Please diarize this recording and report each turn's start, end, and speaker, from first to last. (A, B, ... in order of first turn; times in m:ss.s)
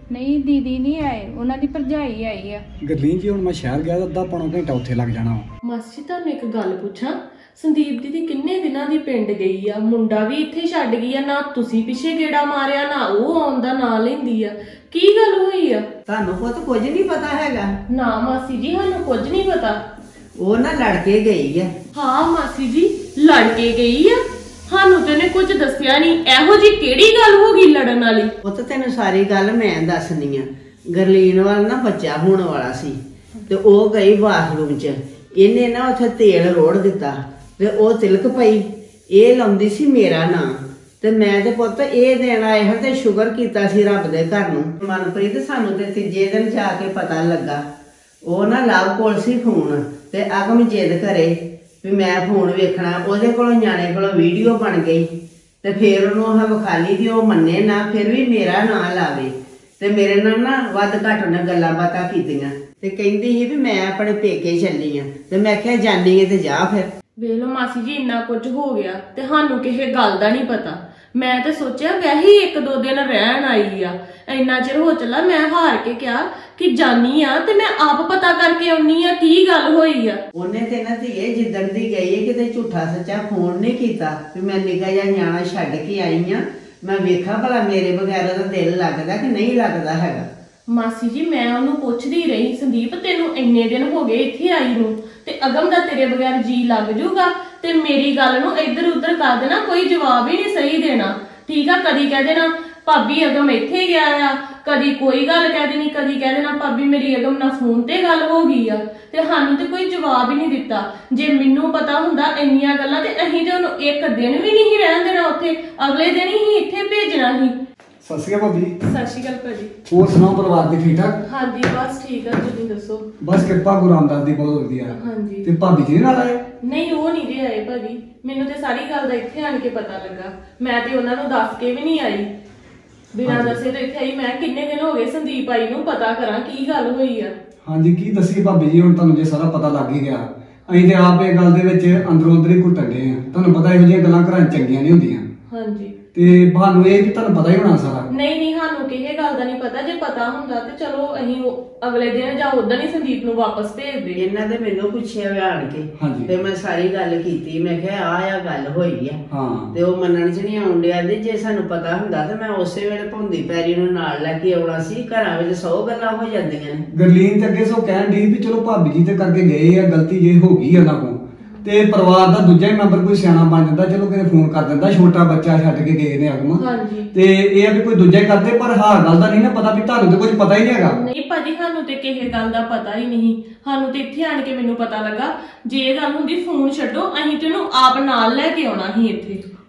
0:00.1-0:02.6 A
0:02.8-0:05.5 B
0:05.6-0:15.8 C
0:16.1-0:17.7 D
0:17.9-0:19.8 C
0:20.4-0:21.7 D
0:21.9-0:28.3 C
0:28.4-0:33.0 D
0:33.5-0:40.5 D
0:41.0-0:47.6 D
0:48.3-0:55.1 D
0:55.6-1:06.9 D
1:07.2-1:20.2 C
1:20.4-1:30.3 D
1:30.7-1:57.6 C
1:58.0-1:58.8 B
1:58.8-1:59.7 C
1:59.9-2:01.2 B
2:01.2-2:03.1 C
2:03.2-2:06.4 B
2:04.9-2:05.5 C
2:06.6-2:12.3 C
2:13.1-2:17.3 C
2:13.2-2:13.6 B
2:17.6-2:25.2 B
2:25.5-2:26.0 C
2:26.1-2:28.1 B
2:28.1-2:34.2 C
2:34.2-2:39.2 D
2:36.0-2:36.3 B
2:39.3-2:39.7 B
2:39.7-2:46.8 D
2:46.9-2:56.6 B
2:56.6-2:57.1 C
2:57.1-3:01.0 B
3:00.8-3:09.4 C